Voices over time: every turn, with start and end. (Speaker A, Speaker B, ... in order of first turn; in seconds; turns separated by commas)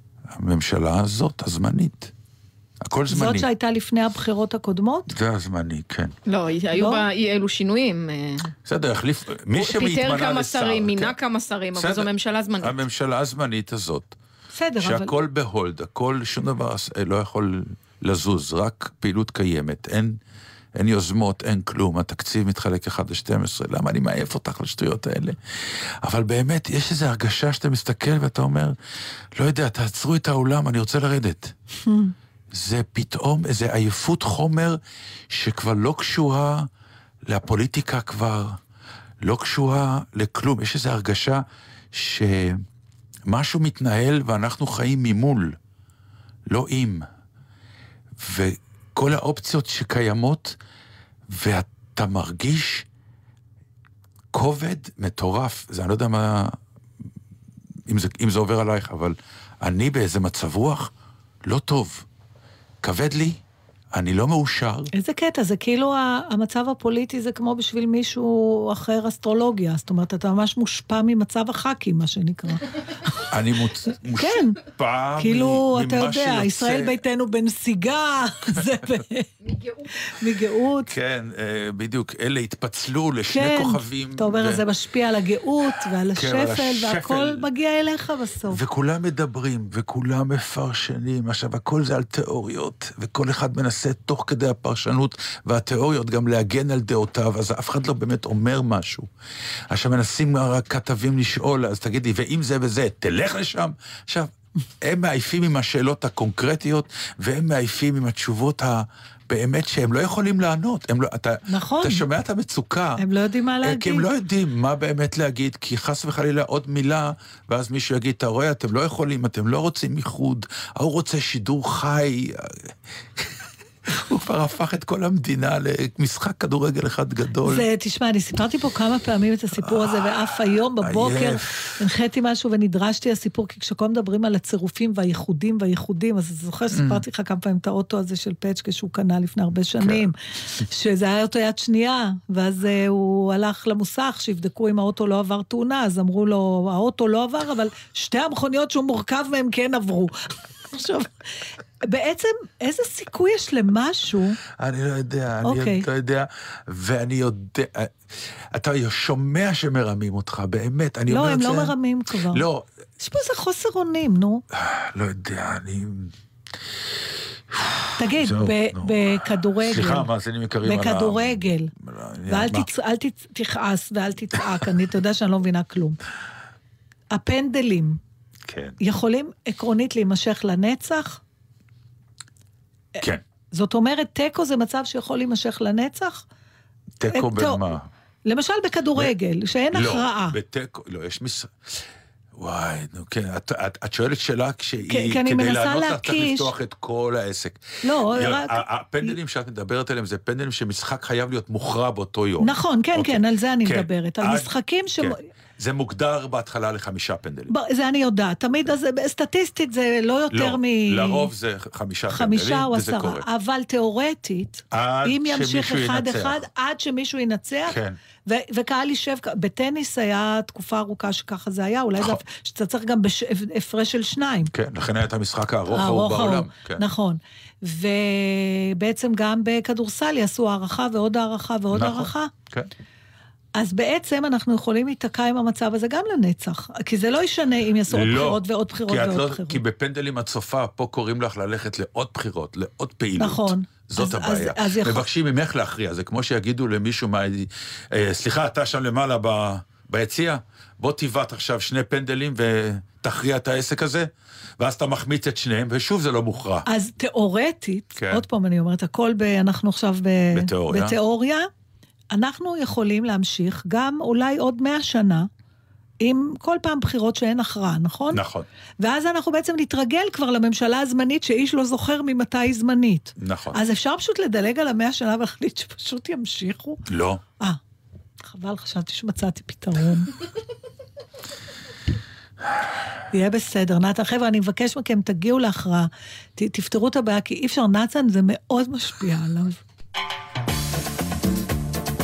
Speaker A: 0.3-2.1, Speaker A: 2.8-3.5, Speaker B: 3.1-5.1, Speaker A: 5.1-6.1, Speaker C: 6.3-8.5, Speaker B: 6.7-7.0, Speaker A: 8.7-11.2, Speaker C: 9.6-12.8, Speaker A: 11.7-12.1, Speaker A: 12.6-14.2, Speaker B: 14.5-15.2, Speaker A: 14.8-20.2, Speaker A: 20.8-28.8, Speaker A: 29.4-31.5, Speaker B: 31.9-32.1, Speaker A: 32.5-36.7, Speaker A: 37.3-38.6, Speaker A: 39.2-42.6, Speaker A: 43.3-45.6, Speaker A: 46.5-47.1, Speaker A: 48.2-50.6, Speaker A: 51.3-52.9, Speaker A: 54.3-56.6, Speaker A: 57.9-60.9, Speaker A: 61.4-62.1, Speaker A: 62.8-63.4, Speaker A: 63.9-64.9, Speaker B: 64.9-73.2, Speaker A: 73.3-77.0, Speaker B: 74.1-74.6, Speaker B: 75.2-79.3, Speaker B: 80.0-80.9, Speaker A: 80.9-84.6, Speaker B: 83.3-88.6, Speaker A: 85.7-87.5, Speaker A: 88.5-99.1, Speaker A: 99.7-104.3, Speaker A: 104.8-113.0, Speaker B: 111.5-112.0, Speaker B: 113.0-114.1, Speaker A: 113.6-127.7, Speaker B: 127.4-150.1, Speaker A: 129.6-131.8, Speaker A: 136.7-137.0, Speaker A: 139.8-140.1, Speaker B: 150.7-151.1, Speaker B: 151.8-154.4, Speaker A: 154.6-157.9, Speaker B: 155.4-155.9, Speaker A: 158.5-161.8, Speaker B: 161.1-162.5, Speaker A: 162.3-162.7, Speaker B: 163.0-164.4, Speaker A: 164.5-166.1, Speaker A: 167.5-172.7, Speaker B: 168.0-170.1, Speaker B: 170.6-171.7, Speaker B: 172.3-176.0, Speaker B: 177.1-178.0, Speaker A: 178.5-178.8, Speaker B: 178.8-181.2, Speaker B: 183.5-186.2, Speaker A: 187.0-187.9, Speaker B: 187.1-187.7, Speaker B: 188.2-190.4, Speaker A: 189.7-207.5, Speaker B: 194.9-196.5, Speaker B: 197.8-199.2, Speaker B: 202.4-205.2, Speaker B: 207.5-211.3, Speaker A: 210.3-213.2, Speaker B: 212.1-224.5, Speaker A: 214.7-216.4, Speaker A: 217.7-218.0, Speaker A: 222.0-222.2, Speaker A: 224.5-226.9, Speaker B: 225.7-232.3, Speaker A: 231.7-232.7, Speaker B: 233.6-239.6, Speaker A: 237.9-256.7, Speaker B: 243.2-245.1, Speaker B: 256.7-261.5, Speaker A: 258.0-258.2, Speaker A: 260.3-261.0, Speaker B: 262.1-265.3, Speaker B: 266.0-268.2, Speaker A: 268.1-268.5, Speaker B: 268.8-276.8, Speaker A: 273.2-273.6, Speaker A: 276.9-277.2, Speaker B: 278.2-280.1, Speaker B: 283.1-289.6